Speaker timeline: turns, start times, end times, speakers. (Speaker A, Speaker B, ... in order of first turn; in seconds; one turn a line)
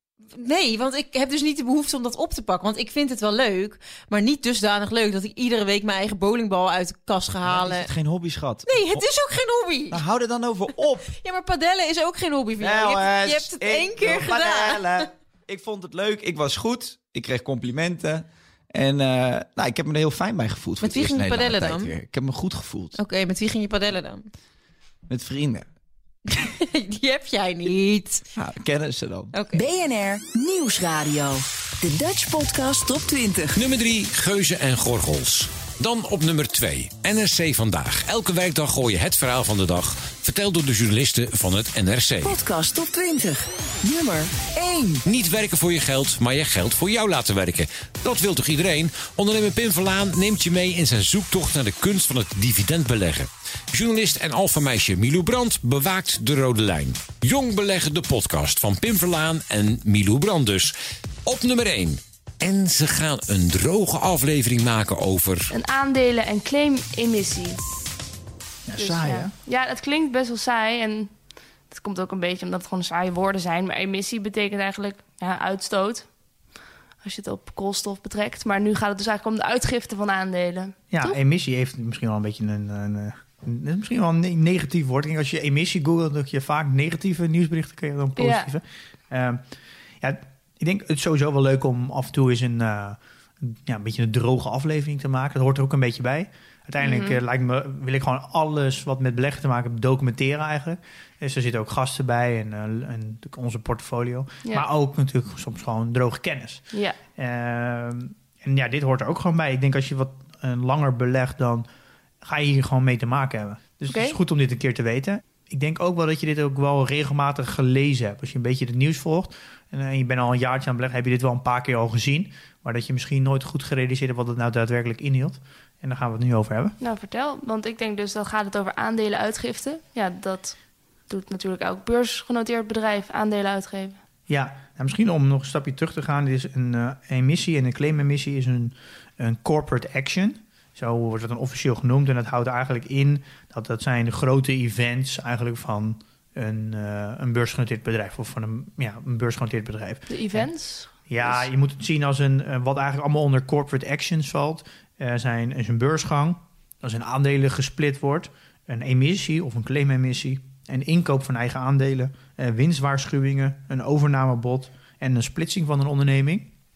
Speaker A: 0.3-7.9
Speaker B: 7.4-9.1
Speaker A: 8.7-10.0
Speaker B: 9.9-11.1
Speaker A: 11.1-15.0
Speaker B: 12.6-22.9
Speaker A: 20.8-21.9
Speaker A: 22.9-24.2
Speaker B: 25.1-25.6
Speaker A: 26.3-28.2
Speaker B: 28.4-29.3
Speaker A: 29.3-29.6
Speaker C: 29.5-33.6
Speaker D: 33.5-42.4
Speaker C: 42.2-45.0
Speaker D: 45.0-60.7
Speaker D: 61.2-65.5
Speaker E: 65.5-67.6
Speaker F: 68.7-69.3
Speaker E: 68.8-76.1
Speaker E: 77.0-81.2
Speaker F: 80.9-89.4
Speaker E: 88.2-88.5
Speaker F: 90.0-111.7
Speaker E: 96.8-97.2
Speaker F: 112.2-126.8
Speaker E: 113.9-114.2
Speaker E: 126.8-130.6
Speaker E: 131.1-134.0
Speaker F: 134.3-150.5
Speaker E: 150.1-151.5
Speaker F: 151.1-166.5